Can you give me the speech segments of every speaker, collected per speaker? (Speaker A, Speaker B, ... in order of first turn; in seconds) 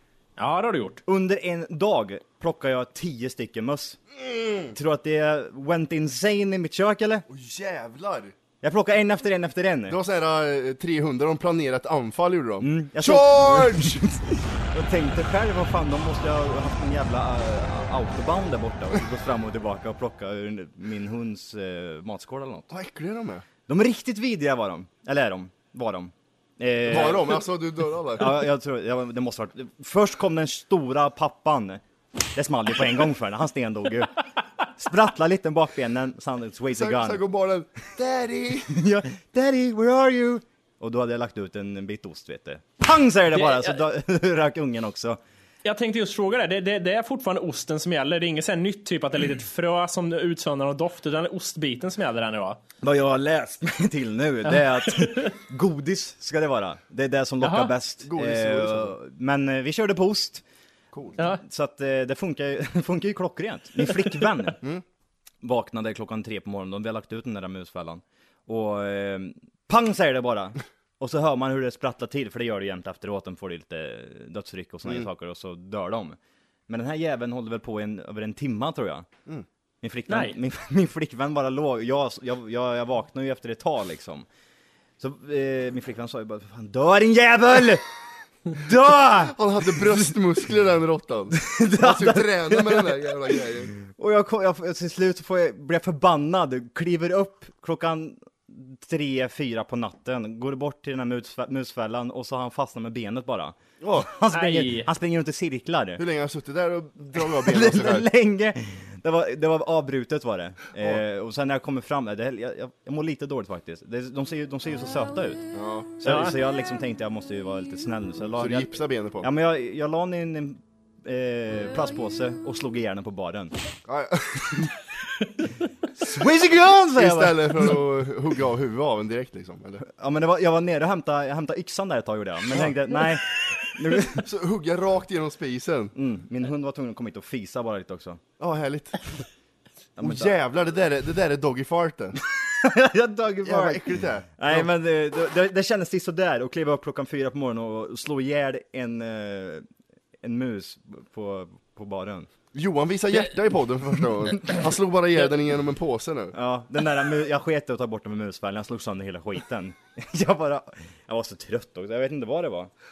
Speaker A: 0.4-1.0, 43.3-43.8, 45.6-52.6, 54.5-55.4, 57.4-57.7, 61.2-61.4, 80.1-80.4, 104.3-104.9, 116.0-116.3
Speaker B: 1.1-4.0, 4.7-7.2, 8.6-10.0, 12.6-22.7, 23.7-27.4, 28.1-34.2, 34.7-37.2, 38.6-45.2, 52.8-60.4, 61.2-64.6, 65.4-76.2, 76.7-79.1, 79.8-84.3, 85.0-87.9, 88.5-90.1, 91.3-106.0, 107.2-115.4, 116.0-118.7, 119.2-123.5, 126.0-127.8, 129.8-134.3, 135.9-138.2, 139.9-140.3, 142.2-149.7, 150.2-152.3, 156.3-162.7
Speaker C: 4.2-4.7, 7.3-8.3, 9.9-14.0, 22.7-23.4, 26.9-28.4, 36.7-38.7, 58.0-58.9, 60.9-61.2, 89.2-93.7, 103.8-104.1, 106.0-108.1, 115.5-115.9, 118.3-119.3, 123.9-124.7, 126.9-129.9, 134.0-135.9, 138.4-139.2, 140.0-142.2, 143.4-144.7, 152.5-156.3